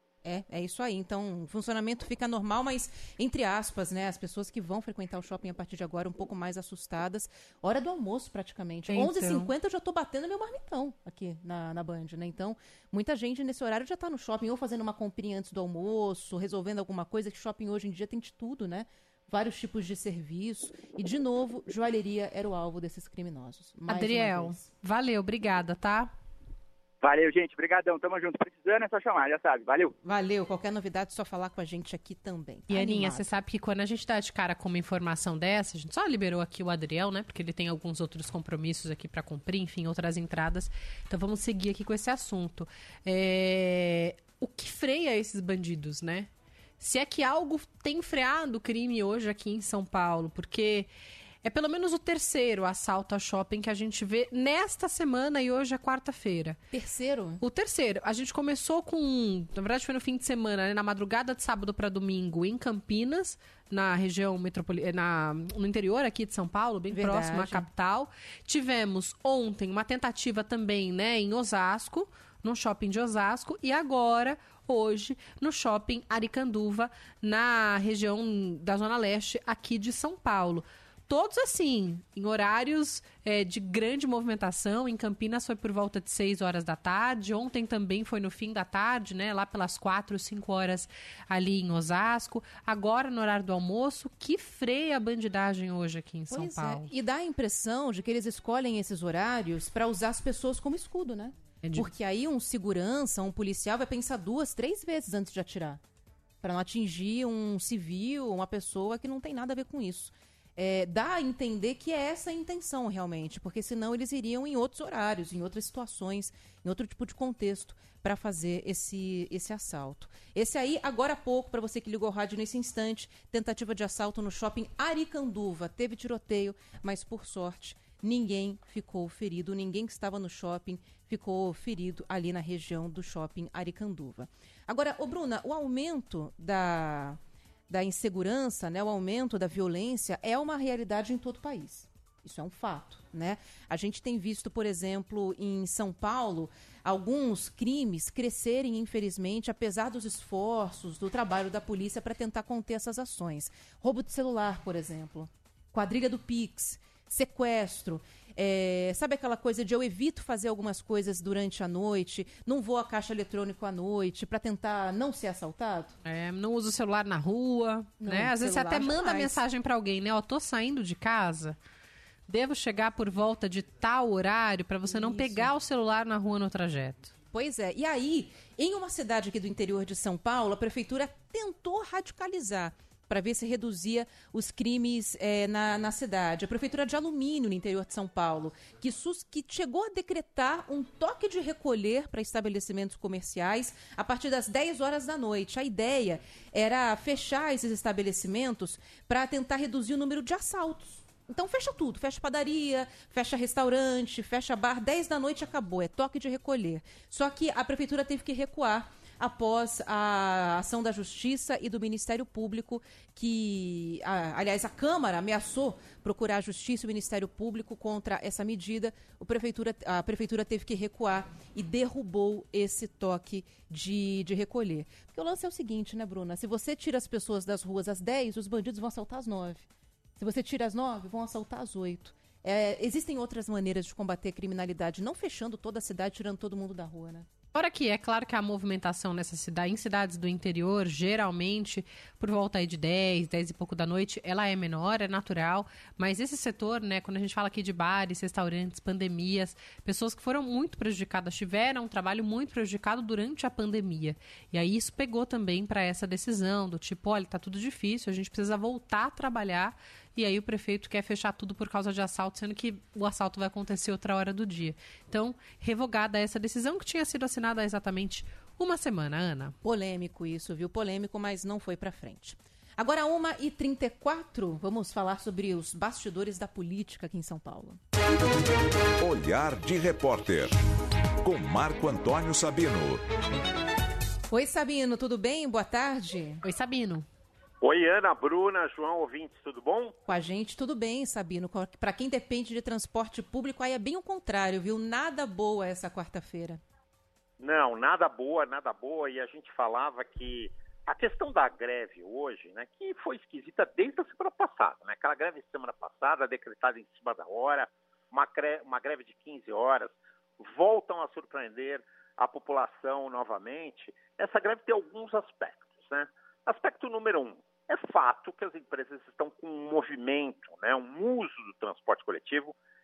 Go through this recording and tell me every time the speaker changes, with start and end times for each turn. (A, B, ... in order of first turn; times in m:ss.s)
0:00.2-0:24.6 A
0:08.9-0:09.5 B
0:23.9-0:26.1 B
0:27.0-0:29.9 C
0:30.0-0:33.3 A
0:32.7-0:46.3 B
0:46.8-0:50.9 B
0:51.4-0:56.6 B
0:56.7-0:57.4 A
0:57.4-1:36.9 B
1:06.9-1:07.7 A
1:36.3-1:45.8 A
1:41.6-1:41.9 B
1:46.4-2:46.0 A
2:46.0-2:51.6 B
2:48.0-2:49.4 A
2:52.3-2:57.1 B
2:54.8-2:55.5 A
2:57.3-3:49.6 A
3:50.2-3:57.3 A
3:57.5-4:29.5 B
4:29.6-4:37.8 A
4:39.0-4:40.6 D
4:41.2-4:43.0 D
4:44.3-4:46.4 A
4:46.4-4:47.0 B
4:47.6-4:49.9 E
4:50.1-4:56.6 A
4:57.4-5:09.9 E
5:10.4-5:22.5 E